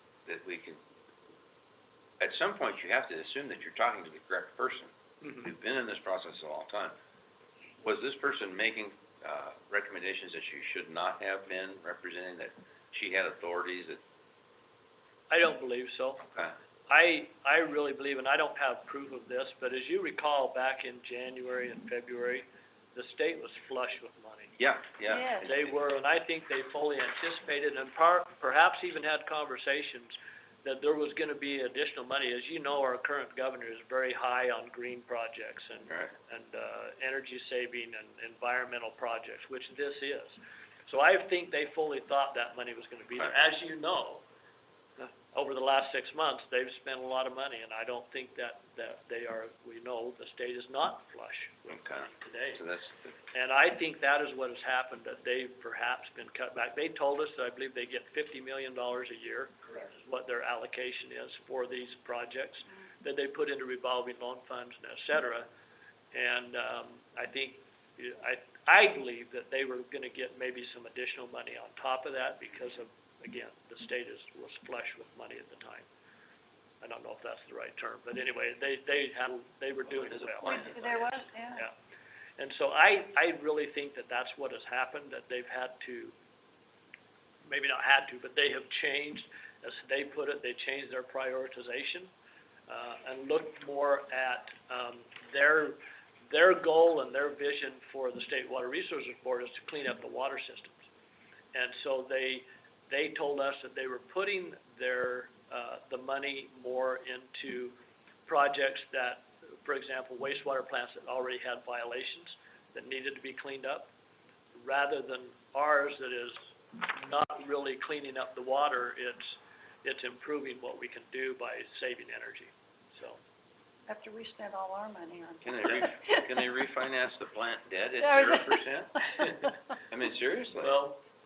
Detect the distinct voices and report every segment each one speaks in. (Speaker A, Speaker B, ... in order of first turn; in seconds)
Speaker A: 0.3-0.8, 2.2-6.9, 7.8-14.0, 16.3-16.5, 24.6-25.7, 35.9-36.1, 51.7-53.1, 79.9-81.1, 125.4-130.8
Speaker B: 15.3-16.2, 16.9-24.5, 25.4-44.2, 45.0-52.6, 53.3-65.5, 66.1-75.9, 76.8-81.0, 82.4-86.2, 87.4-92.1, 92.7-95.8, 96.3-100.9, 101.5-113.9, 114.5-123.2, 130.6-131.0
Speaker C: 25.1-25.4, 80.5-81.6, 123.9-126.3, 128.0-128.7